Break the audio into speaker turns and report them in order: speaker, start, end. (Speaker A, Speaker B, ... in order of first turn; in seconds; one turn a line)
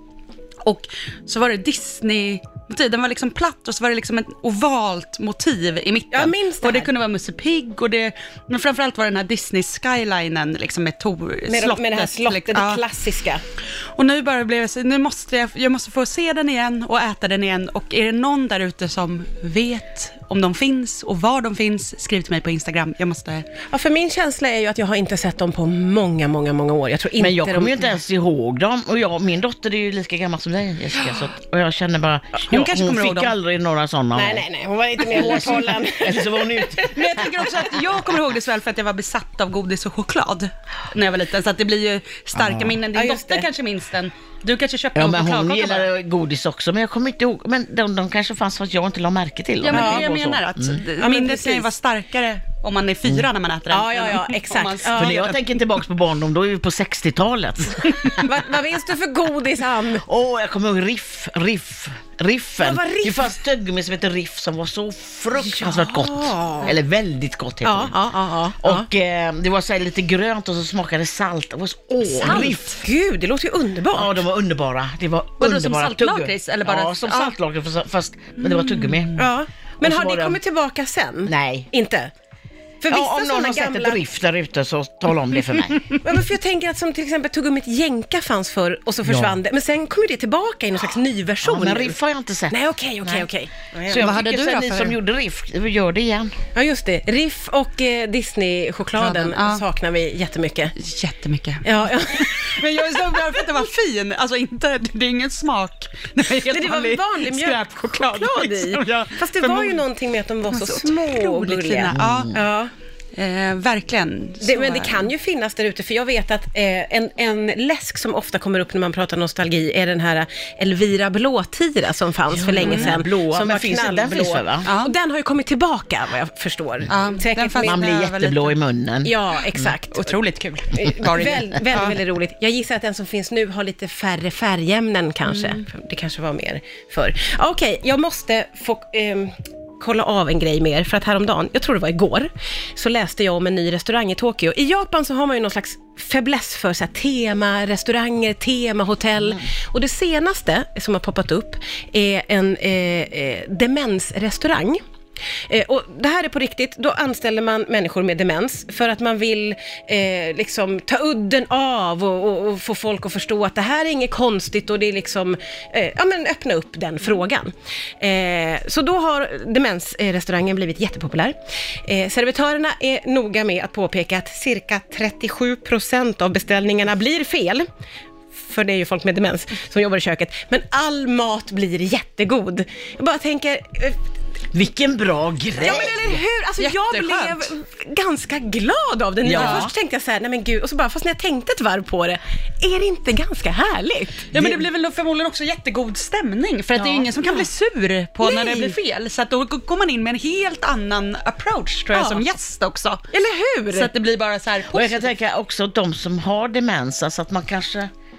Speaker A: 0.6-12.8
Speaker B: 6.1-6.9
Speaker B: 11.5-13.4
Speaker A: 13.9-23.5
Speaker B: 23.7-27.9
Speaker C: 27.2-34.4
Speaker A: 32.5-33.3
Speaker B: 34.1-36.9
Speaker C: 35.0-37.5
Speaker A: 36.9-45.9
Speaker C: 42.3-42.8
Speaker B: 42.9-43.5
Speaker C: 45.0-50.8
Speaker A: 49.6-55.4
Speaker B: 49.7-50.0
Speaker B: 51.0-51.7
Speaker B: 53.7-55.2
Speaker C: 54.9-58.3
Speaker B: 58.2-60.0
Speaker C: 60.0-68.0
Speaker B: 62.6-63.4
Speaker B: 65.4-66.7
Speaker B: 67.6-68.9
Speaker C: 68.6-72.8
Speaker B: 72.1-74.2
Speaker A: 72.2-72.6
Speaker C: 73.9-79.2
Speaker A: 75.4-77.3
Speaker A: 78.4-79.2
Speaker B: 79.2-82.1
Speaker C: 79.8-80.4
Speaker C: 81.2-81.7
Speaker B: 82.8-84.0
Speaker C: 82.9-86.0
Speaker B: 86.0-92.0
Speaker C: 89.0-89.4
Speaker C: 91.4-93.3
Speaker B: 92.5-94.1
Speaker C: 93.9-96.3
Speaker A: 93.9-95.0
Speaker B: 96.5-100.8
Speaker A: 99.0-99.6
Speaker A: 100.8-109.8
Speaker B: 101.6-103.4
Speaker B: 106.5-112.7
Speaker A: 110.5-112.4
Speaker C: 111.9-112.4
Speaker A: 113.2-115.1
Speaker B: 114.4-127.8
Speaker C: 122.3-124.7
Speaker A: 122.6-122.9
Speaker A: 124.7-124.9
Speaker A: 126.9-128.5
Speaker C: 127.6-129.6
Speaker B: 129.0-130.1
Speaker A: 129.9-132.0
Speaker B: 130.7-154.8
Speaker A: 135.3-135.6
Speaker B: 155.4-177.7
Speaker B: 178.4-184.0
Speaker C: 184.5-186.1
Speaker B: 185.6-194.5
Speaker A: 186.6-187.5
Speaker C: 189.2-189.7
Speaker A: 189.3-189.7
Speaker A: 194.3-203.0
Speaker B: 196.8-197.4
Speaker B: 198.2-198.7
Speaker B: 201.9-202.2
Speaker B: 203.1-203.9
Speaker A: 203.7-205.1
Speaker C: 204.7-207.9